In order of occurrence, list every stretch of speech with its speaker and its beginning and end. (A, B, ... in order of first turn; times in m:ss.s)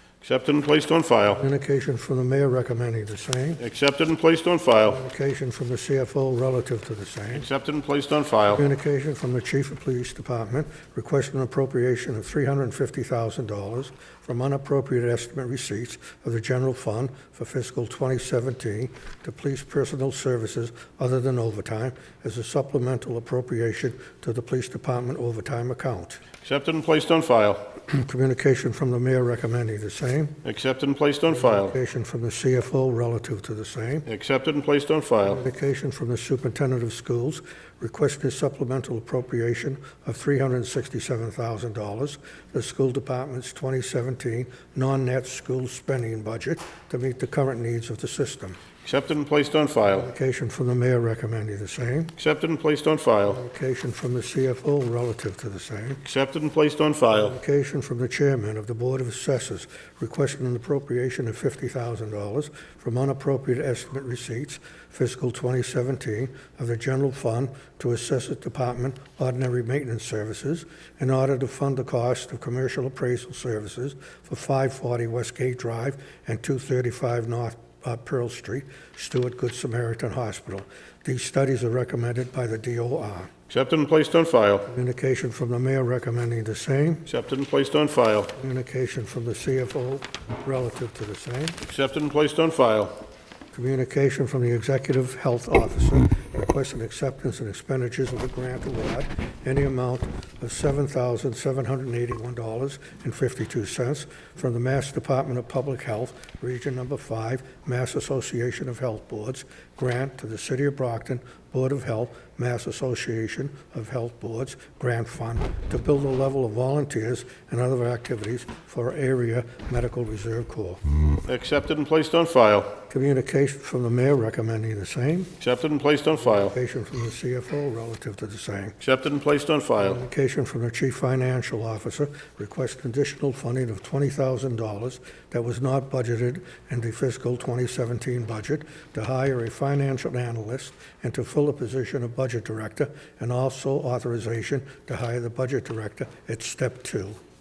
0:00.2-0:01.4 A
0:01.3-0:03.6 B
0:03.6-0:05.0 A
0:04.9-0:07.4 B
0:07.3-0:08.6 A
0:08.5-0:26.2 B
0:26.4-0:27.7 A
0:27.9-0:30.4 B
0:30.4-0:31.8 A
0:31.3-0:34.1 B
0:34.1-0:35.4 A
0:35.2-0:48.6 B
0:48.8-0:50.1 A
0:49.9-0:52.1 B
0:52.2-0:53.4 A
0:53.3-0:56.0 B
0:56.0-0:57.4 A
0:57.2-1:23.3 B
1:23.5-1:24.7 A
1:24.7-1:27.1 B
1:27.1-1:28.3 A
1:28.4-1:31.6 B
1:31.6-1:33.0 A
1:33.5-2:00.8 B
2:01.3-2:02.8 A
2:02.9-2:05.3 B
2:05.4-2:06.6 A
2:06.3-2:08.8 B
2:08.8-2:10.0 A
2:09.8-2:27.2 B